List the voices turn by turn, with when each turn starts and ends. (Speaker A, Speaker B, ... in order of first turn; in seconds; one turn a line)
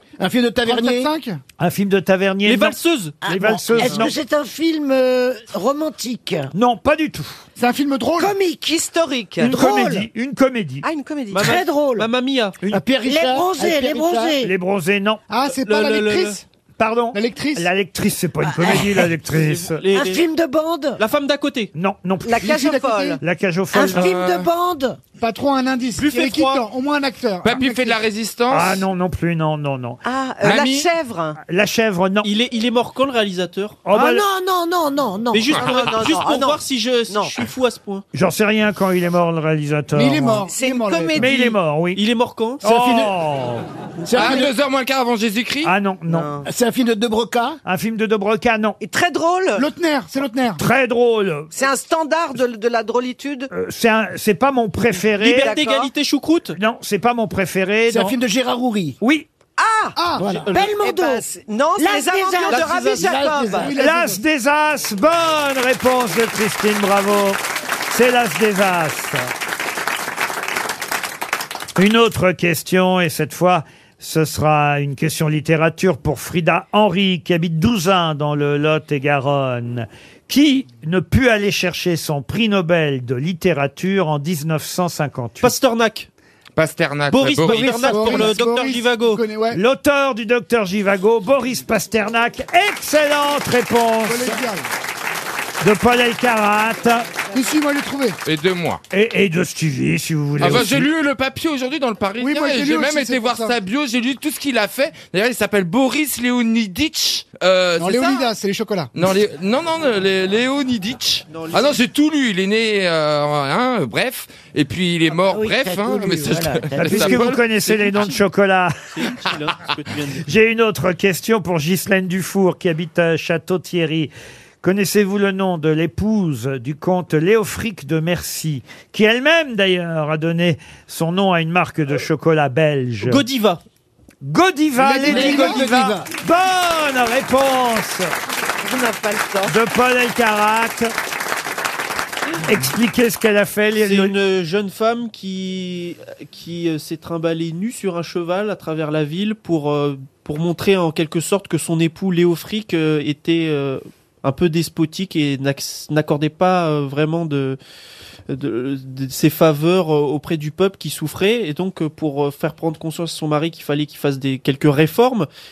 Speaker A: 0.2-1.1
Speaker B: 0.7-1.4
Speaker C: 1.6-4.1
Speaker D: 2.4-3.2
Speaker E: 3.2-6.5
Speaker D: 3.8-4.1
Speaker C: 6.5-7.4
Speaker B: 7.6-8.3
Speaker E: 8.2-8.8
Speaker F: 8.7-9.6
Speaker C: 9.4-10.8
Speaker E: 9.5-10.1
Speaker F: 10.8-11.5
Speaker D: 11.3-12.6
Speaker E: 11.3-12.1
Speaker A: 12.7-14.4
Speaker E: 13.1-14.5
Speaker C: 14.4-15.2
Speaker B: 15.3-16.4
Speaker D: 15.5-16.4
Speaker C: 16.8-19.8
Speaker B: 17.1-17.7
Speaker E: 18.4-19.0
Speaker D: 19.3-20.2
Speaker E: 19.9-21.0
Speaker D: 21.0-21.7
Speaker C: 21.7-22.6
Speaker F: 22.2-23.2
Speaker B: 22.4-23.2
Speaker C: 23.2-24.1
Speaker E: 23.7-25.0
Speaker G: 23.9-24.5
Speaker B: 25.2-28.0
Speaker D: 26.0-26.6
Speaker G: 27.4-28.9
Speaker C: 28.5-30.0
Speaker F: 30.0-31.4
Speaker G: 30.4-30.9
Speaker C: 31.5-32.3
Speaker D: 32.2-33.9
Speaker C: 33.9-34.2
Speaker E: 33.9-35.6
Speaker D: 35.3-38.0
Speaker F: 35.5-37.4
Speaker C: 38.1-40.5
Speaker B: 39.9-41.3
Speaker F: 40.5-41.5
Speaker C: 41.1-42.0
Speaker D: 42.0-43.1
Speaker C: 42.6-43.6
Speaker A: 44.0-44.5
Speaker G: 44.1-45.7
Speaker C: 45.6-46.3
Speaker F: 46.1-46.5
Speaker A: 46.4-47.6
Speaker C: 47.6-48.8
Speaker F: 48.8-49.7
Speaker B: 49.5-50.6
Speaker C: 50.6-51.5
Speaker F: 51.5-53.5
Speaker C: 53.5-55.6
Speaker D: 55.2-56.6
Speaker F: 55.4-55.9
Speaker C: 56.6-58.2
Speaker A: 57.9-59.0
Speaker C: 59.0-59.3
Speaker F: 59.6-60.0
Speaker B: 60.0-60.3
Speaker A: 60.2-60.5
Speaker D: 60.3-60.6
Speaker E: 60.5-61.2
Speaker F: 60.5-63.7
Speaker E: 61.8-63.2
Speaker D: 62.5-62.8
Speaker A: 62.7-63.8
Speaker B: 63.5-64.2
Speaker C: 63.8-69.3
Speaker C: 71.8-85.5
Speaker D: 85.4-86.1
Speaker G: 86.6-87.9
Speaker D: 87.1-89.2
Speaker B: 87.4-89.6
Speaker C: 89.5-94.4
Speaker B: 94.1-94.7
Speaker C: 95.6-97.1
Speaker B: 97.3-98.2
Speaker G: 98.2-98.8
Speaker C: 98.9-100.9
Speaker G: 100.4-108.3
Speaker B: 102.2-103.6
Speaker B: 107.8-108.9
Speaker G: 108.9-117.4
Speaker D: 111.3-111.8
Speaker E: 115.3-117.3
Speaker C: 116.8-118.9
Speaker D: 117.6-118.2
Speaker D: 118.9-120.3
Speaker C: 120.2-124.1
Speaker C: 124.6-133.2
Speaker D: 133.0-133.6
Speaker C: 134.2-138.1
Speaker B: 134.8-135.7
Speaker A: 134.9-136.1
Speaker F: 138.6-139.6
Speaker C: 139.5-140.9
Speaker C: 142.4-144.1
Speaker D: 143.8-157.6
Speaker D: 158.3-165.3